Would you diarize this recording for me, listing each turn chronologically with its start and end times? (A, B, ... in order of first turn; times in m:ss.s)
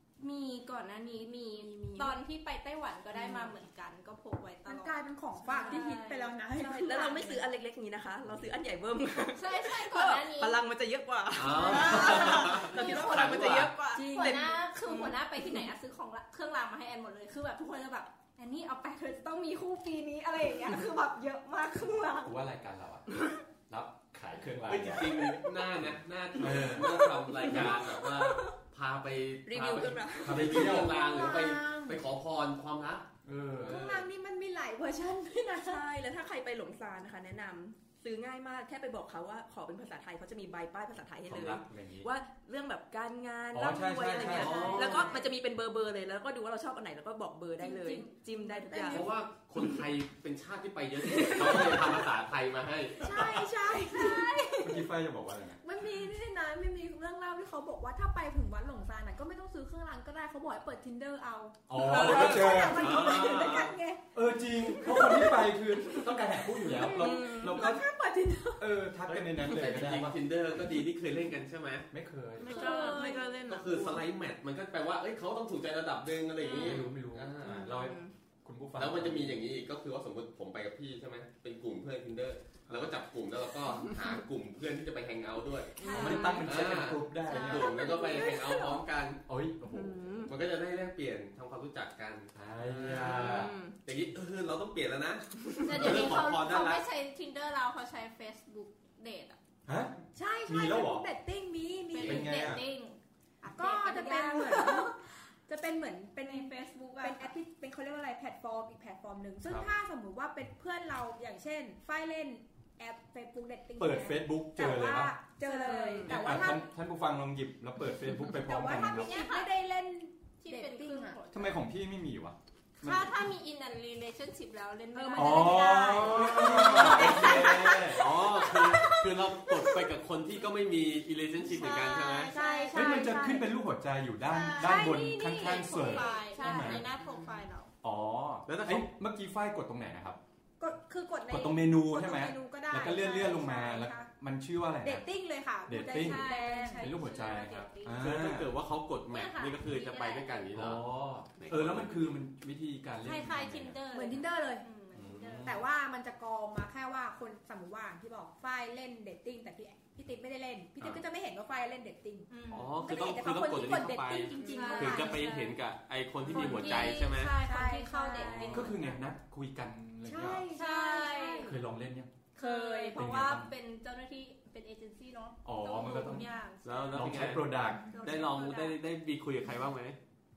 0:00.2-0:05.0 A
0:01.4-0:02.2 B
0:04.6-0:07.4 C
0:05.5-0:07.4 A
0:05.5-0:06.0 B
0:06.6-0:15.7 B
0:09.4-0:10.6 A
0:11.4-0:13.7 D
0:11.5-0:12.2 C
0:12.8-0:13.1 A
0:13.9-0:14.6 C
0:14.1-0:22.3 A
0:22.2-0:27.8 E
0:24.7-0:33.0 D
0:26.5-0:28.5 B
0:29.5-0:30.7 B
0:30.2-0:30.9 E
0:30.5-0:32.0 C
0:33.2-0:33.9 E
0:33.6-0:35.9 C
0:33.6-0:34.0 D
0:35.6-0:49.1 B
0:41.3-0:42.1 E
0:43.5-0:44.7 E
0:44.2-0:45.2 C
0:44.2-0:45.1 D
0:44.6-0:45.2 A
0:47.6-0:49.0 A
0:48.6-0:49.1 C
0:48.8-0:53.1 D
0:51.1-0:52.0 B
0:53.0-0:54.6 C
0:53.8-0:54.8 A
0:54.6-0:55.6 E
0:55.6-1:04.1 C
1:01.7-1:03.4 E
1:01.8-1:02.6 B
1:02.4-1:03.7 D
1:04.1-1:07.8 E
1:04.7-1:08.7 C
1:06.8-1:07.7 B
1:08.6-1:10.2 E
1:09.1-1:11.9 D
1:11.9-1:12.7 E
1:12.4-1:14.0 B
1:12.4-1:13.4 A
1:12.7-1:13.2 C
1:13.5-1:17.7 D
1:16.4-1:16.8 B
1:16.5-1:16.7 A
1:16.6-1:19.4 E
1:17.5-1:18.1 B
1:18.8-1:25.9 D
1:25.8-1:26.5 B
1:25.8-1:26.4 A
1:25.9-1:27.8 E
1:26.4-1:29.2 D
1:27.3-1:28.6 A
1:27.8-1:28.8 B
1:29.3-1:30.3 E
1:29.7-1:30.3 B
1:30.3-1:36.8 D
1:32.3-1:33.5 E
1:32.9-1:33.8 B
1:35.4-1:36.0 B
1:35.6-1:39.4 A
1:39.7-1:39.9 E
1:40.1-1:42.3 C
1:40.5-1:41.1 E
1:41.9-1:45.1 A
1:42.0-1:42.6 E
1:43.5-1:56.7 C
1:46.2-1:47.4 A
1:49.5-1:49.7 E
1:53.8-1:55.2 E
1:55.4-1:56.1 A
1:55.6-1:56.1 B
1:56.1-1:59.2 E
1:58.3-2:01.2 C
1:58.8-1:59.5 A
2:00.4-2:01.6 A
2:01.3-2:03.1 E
2:02.8-2:09.9 A
2:04.9-2:07.8 C
2:05.2-2:08.2 E
2:06.5-2:12.4 D
2:11.4-2:13.5 A
2:12.3-2:13.4 C
2:12.7-2:16.9 E
2:14.3-2:17.7 A
2:14.5-2:16.8 C
2:17.8-2:20.2 E
2:18.5-2:18.9 D
2:20.6-2:24.1 C
2:21.3-2:25.1 E
2:24.8-2:27.0 C
2:25.7-2:28.5 E
2:25.7-2:28.1 A
2:27.9-2:32.1 D
2:29.1-2:30.5 A
2:30.5-2:33.8 E
2:33.0-2:35.5 A
2:33.9-2:34.7 C
2:34.9-2:35.6 E
2:35.4-2:45.3 C
2:42.3-2:42.7 A
2:42.5-2:47.4 D
2:44.3-2:45.5 A
2:44.4-2:45.4 B
2:46.3-2:49.0 A
2:46.3-2:48.7 C
2:48.4-2:50.5 E
2:50.1-2:51.6 C
2:50.5-2:51.6 A
2:51.4-2:52.1 E
2:52.4-2:57.2 A
2:52.4-2:53.0 C
2:52.9-2:53.5 E
2:55.4-2:56.3 E
2:56.6-2:57.5 D
2:56.9-2:57.9 E
2:57.7-2:58.1 C
2:57.9-2:58.8 A
2:58.0-3:00.0 D